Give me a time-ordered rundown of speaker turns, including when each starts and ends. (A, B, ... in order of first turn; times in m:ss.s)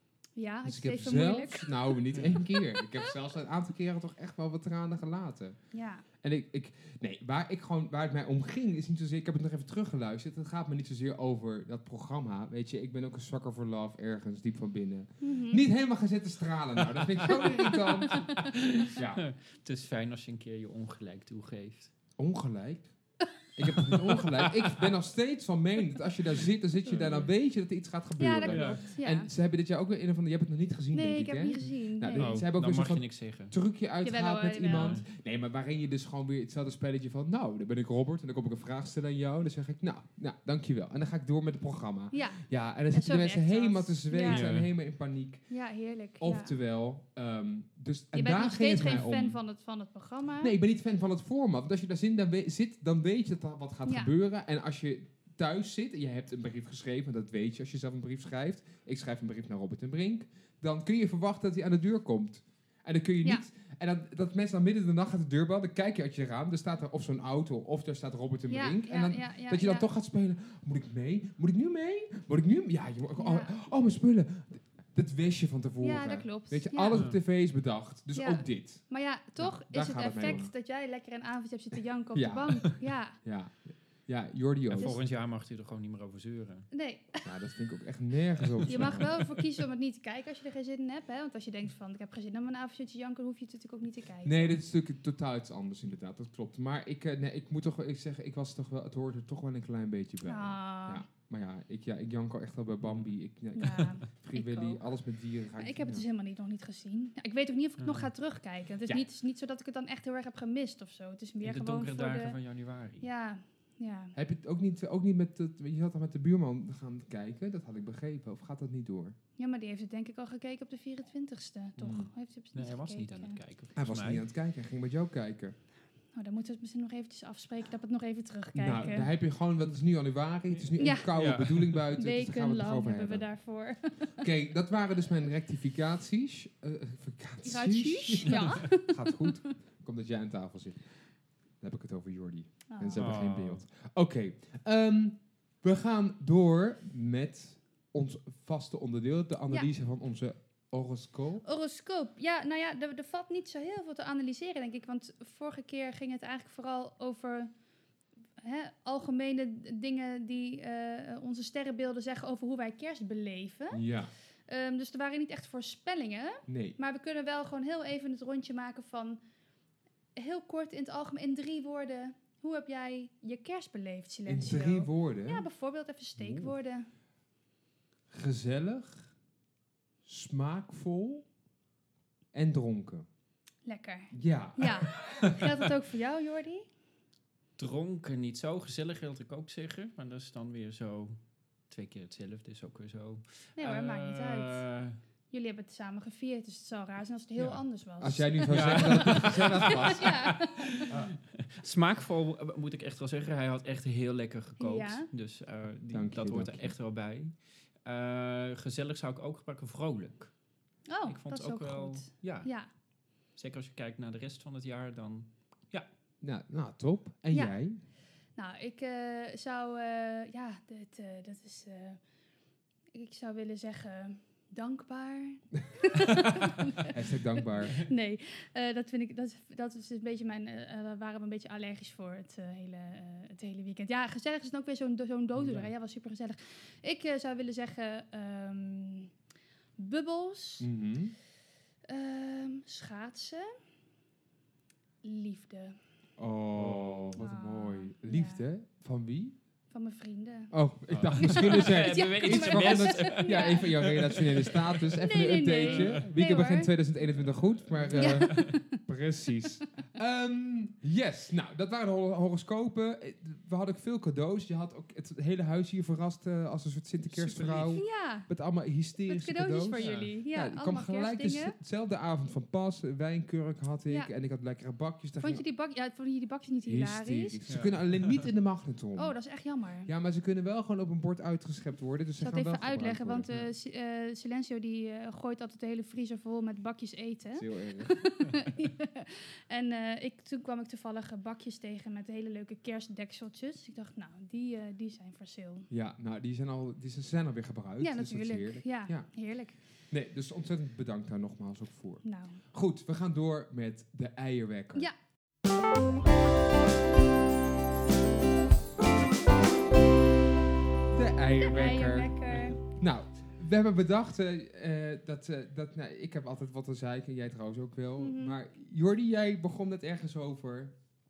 0:00.4-0:02.8 A
0:00.6-0:05.6 B
0:02.1-0:02.4 C
0:05.7-0:06.0 A
0:06.2-0:19.2 B
0:15.2-0:15.6 A
0:16.9-0:21.9 C
0:17.3-0:18.5 A
0:22.2-0:22.9 B
0:23.5-0:45.4 B
0:23.6-0:24.9 C
0:26.9-0:27.3 C
0:28.2-0:29.3 A
0:28.5-0:28.8 C
0:30.9-0:32.4 A
0:32.2-0:33.5 C
0:34.0-0:35.0 A
0:34.6-0:35.0 C
0:42.1-0:44.5 A
0:44.2-0:44.7 C
0:45.5-0:46.5 A
0:46.2-0:49.4 B
0:48.1-0:50.6 A
0:50.4-1:18.8 B
0:53.8-0:54.1 A
1:08.5-1:09.9 A
1:13.2-1:13.5 A
1:15.8-1:17.0 A
1:18.1-1:23.2 A
1:19.4-1:20.5 B
1:22.1-1:25.0 B
1:24.7-1:26.7 C
1:26.7-1:27.2 A
1:27.2-1:29.2 B
1:28.4-1:29.4 C
1:28.7-1:34.6 A
1:34.2-1:46.0 B
1:40.2-1:41.0 A
1:42.8-1:43.1 C
1:43.5-1:44.8 A
1:45.6-1:52.4 A
1:47.8-1:48.1 C
1:51.4-1:53.1 C
1:53.0-1:54.2 A
1:54.1-1:59.1 B
1:59.4-2:03.4 A
2:01.8-2:02.1 B
2:02.5-2:04.2 C
2:03.8-2:05.5 B
2:06.1-2:09.1 A
2:08.6-2:13.3 B
2:10.5-2:11.8 C
2:10.8-2:11.1 A
2:11.9-2:14.2 A
2:14.2-2:20.8 B
2:17.4-2:19.3 A
2:21.6-2:31.4 B
2:22.7-2:23.0 A
2:23.0-2:23.6 C
2:31.4-2:37.5 A
2:38.4-2:43.8 A
2:43.7-2:44.1 B
2:44.5-2:49.2 A
2:46.5-2:46.8 B
2:50.2-2:56.9 A
2:54.3-2:55.4 B
2:56.2-2:56.5 B
2:58.1-2:59.1 B
3:00.0-3:01.2 B
3:02.3-3:03.1 B
3:03.6-3:06.7 A
3:04.1-3:05.4 B
3:07.6-3:11.2 C
3:11.7-3:15.0 C
3:13.6-3:14.6 A
3:15.3-3:20.7 A
3:17.4-3:17.6 C
3:18.0-3:20.3 B
3:18.4-3:30.3 C
3:24.6-3:25.1 A
3:25.9-3:26.7 B
3:30.9-3:32.7 A
3:31.1-3:32.5 C
3:33.3-3:35.9 C
3:36.2-3:37.8 B
3:38.4-3:42.0 A
3:42.9-3:59.1 A
3:45.8-3:47.8 B
3:55.4-3:55.7 C
3:59.8-4:00.7 A
4:00.6-4:01.1 B
4:01.9-4:03.5 A
4:05.0-4:05.8 A
4:06.2-4:09.4 B
4:06.5-4:07.2 C
4:07.2-4:08.4 A
4:09.7-4:10.5 A
4:10.5-4:35.4 B
4:10.9-4:14.8 C
4:11.1-4:13.9 A
4:14.9-4:16.7 A
4:15.6-4:15.9 C
4:17.0-4:18.5 C
4:17.9-4:18.8 A
4:27.1-4:27.8 C
4:27.7-4:28.3 A
4:29.0-4:31.5 A
4:29.8-4:30.1 C
4:35.2-4:37.4 A
4:36.7-4:39.1 B
4:37.5-4:38.2 C
4:39.0-4:39.9 A
4:39.8-4:43.4 B
4:42.2-4:55.7 A
4:47.3-4:48.0 B
4:55.7-4:59.1 B
4:57.8-4:59.6 A
4:59.9-5:04.9 B
5:02.0-5:02.4 A
5:10.9-5:20.7 B
5:11.4-5:12.6 A
5:18.0-5:18.4 A